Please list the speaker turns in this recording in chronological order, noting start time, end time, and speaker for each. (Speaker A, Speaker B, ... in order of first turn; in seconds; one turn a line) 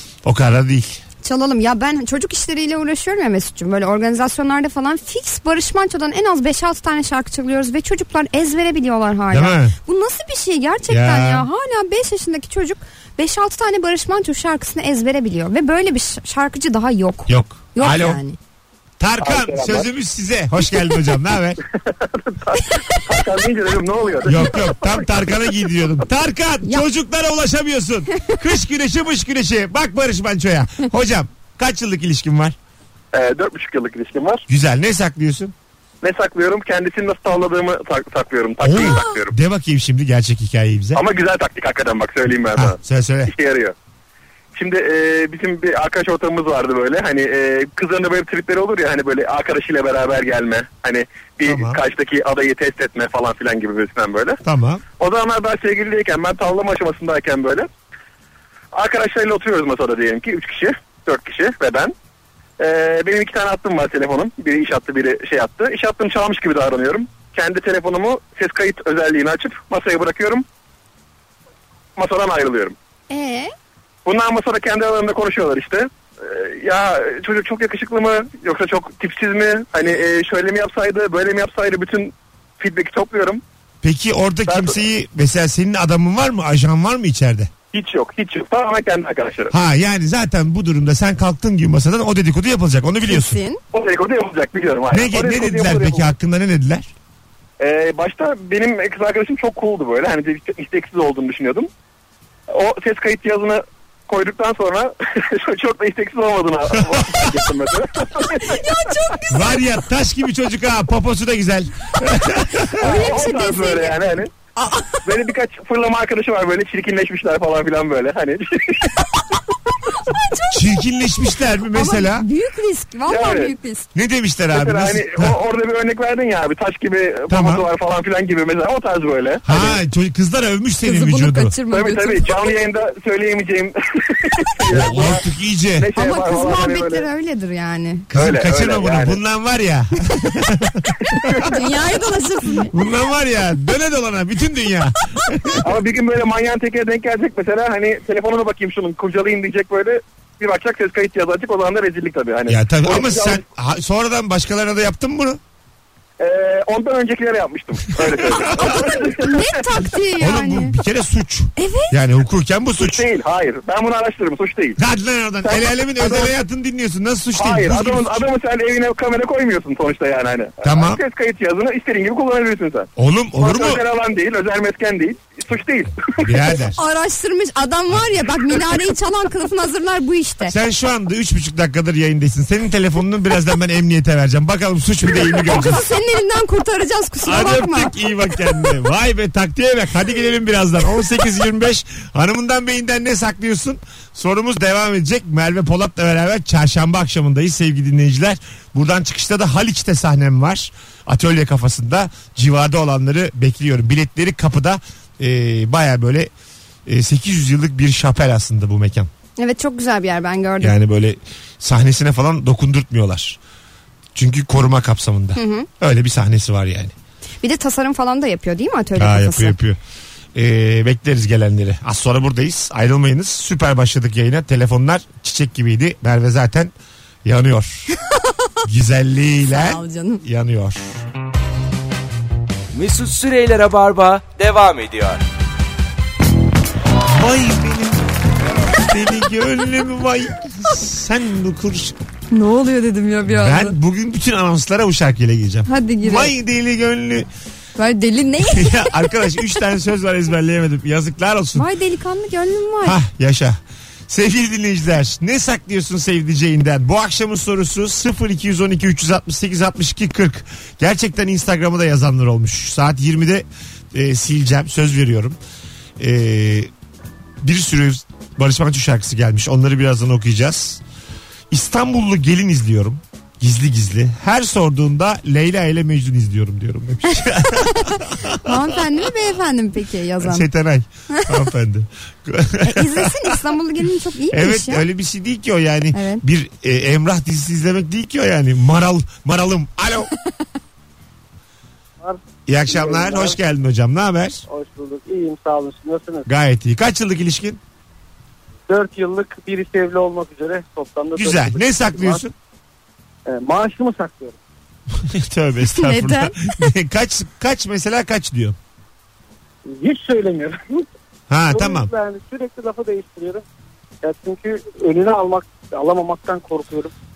Speaker A: 0.2-1.0
Speaker B: 1.2-18.4
Speaker A: 9.3-9.8
Speaker A: 10.9-11.5
Speaker A: 17.3-18.2
Speaker A: 19.0-21.6
Speaker C: 19.2-19.8
Speaker C: 21.9-25.0
Speaker A: 24.2-32.5
Speaker C: 33.1-34.4
Speaker A: 34.5-35.5
Speaker C: 36.0-39.3
Speaker A: 38.6-41.0
Speaker C: 40.9-43.7
Speaker A: 42.5-43.3
Speaker C: 44.5-54.4
Speaker A: 51.5-51.8
Speaker A: 54.4-54.8
Speaker C: 55.0-57.7
Speaker C: 58.7-61.9
Speaker C: 62.6-70.4
Speaker C: 72.0-72.7
Speaker B: 73.1-73.5
Speaker C: 74.0-83.4
Speaker A: 83.8-87.5
Speaker C: 84.5-84.8
Speaker C: 87.7-89.5
Speaker A: 89.5-93.4
Speaker B: 93.1-93.6
Speaker C: 93.7-96.1
Speaker A: 94.9-96.9
Speaker C: 97.6-101.7
Speaker C: 102.5-108.6
Speaker A: 106.8-107.3
Speaker B: 108.3-109.6
Speaker A: 109.3-112.8
Speaker B: 112.7-114.0
Speaker C: 112.8-114.3
Speaker B: 114.6-114.9
Speaker C: 115.0-119.0
Speaker B: 119.9-120.8
Speaker A: 120.5-122.2
Speaker B: 121.7-123.9
Speaker C: 123.1-123.5
Speaker A: 123.9-125.3
Speaker C: 124.5-129.8
Speaker A: 127.3-127.6
Speaker A: 129.4-131.5
Speaker B: 130.8-132.3
Speaker C: 131.7-135.2
Speaker A: 134.7-135.9
Speaker C: 135.8-137.1
Speaker B: 135.9-138.1
Speaker A: 138.1-141.4
Speaker C: 138.1-139.2
Speaker C: 141.1-141.5
Speaker B: 141.4-142.7
Speaker A: 142.7-145.6
Speaker C: 145.6-153.4
Speaker A: 152.5-155.4
Speaker C: 156.2-159.5
Speaker A: 158.1-158.8
Speaker B: 158.5-160.7
Speaker A: 160.2-163.0
Speaker B: 161.6-161.9
Speaker C: 162.8-164.8
Speaker A: 164.8-168.3
Speaker C: 165.4-166.3
Speaker C: 167.3-176.2
Speaker A: 170.6-171.0
Speaker A: 173.0-173.8
Speaker A: 176.2-176.8
Speaker B: 176.8-180.5
Speaker A: 180.5-185.9
Speaker B: 185.4-188.7
Speaker A: 187.2-206.3
Speaker A: 206.8-209.1
Speaker B: 209.4-210.8
Speaker A: 210.6-213.4
Speaker A: 214.1-216.9
Speaker B: 215.3-215.7
Speaker B: 217.4-219.6
Speaker A: 219.0-219.8
Speaker A: 220.3-226.7
Speaker A: 227.2-227.9
Speaker A: 228.6-231.0
Speaker B: 229.4-230.2
Speaker D: 232.7-235.2
Speaker A: 237.0-238.0
Speaker A: 238.7-241.9
Speaker B: 242.3-243.8
Speaker A: 243.3-247.3
Speaker B: 245.7-246.3
Speaker B: 247.8-249.5
Speaker A: 248.4-251.7
Speaker B: 251.5-253.0
Speaker A: 252.8-265.4
Speaker A: 266.0-266.7
Speaker A: 267.4-270.8
Speaker A: 271.5-278.8
Speaker B: 277.1-280.4
Speaker A: 280.2-283.4
Speaker B: 281.1-281.4
Speaker B: 282.6-284.9
Speaker A: 284.3-290.1
Speaker B: 285.9-286.2
Speaker E: 292.0-293.4
Speaker A: 292.5-294.4
Speaker E: 294.5-296.3
Speaker A: 296.3-297.6
Speaker E: 298.7-302.2
Speaker A: 301.1-302.3
Speaker E: 303.2-304.3
Speaker A: 304.9-308.6
Speaker B: 305.7-306.7
Speaker E: 309.7-310.9
Speaker A: 311.3-311.9
Speaker E: 311.5-313.4
Speaker E: 314.0-316.9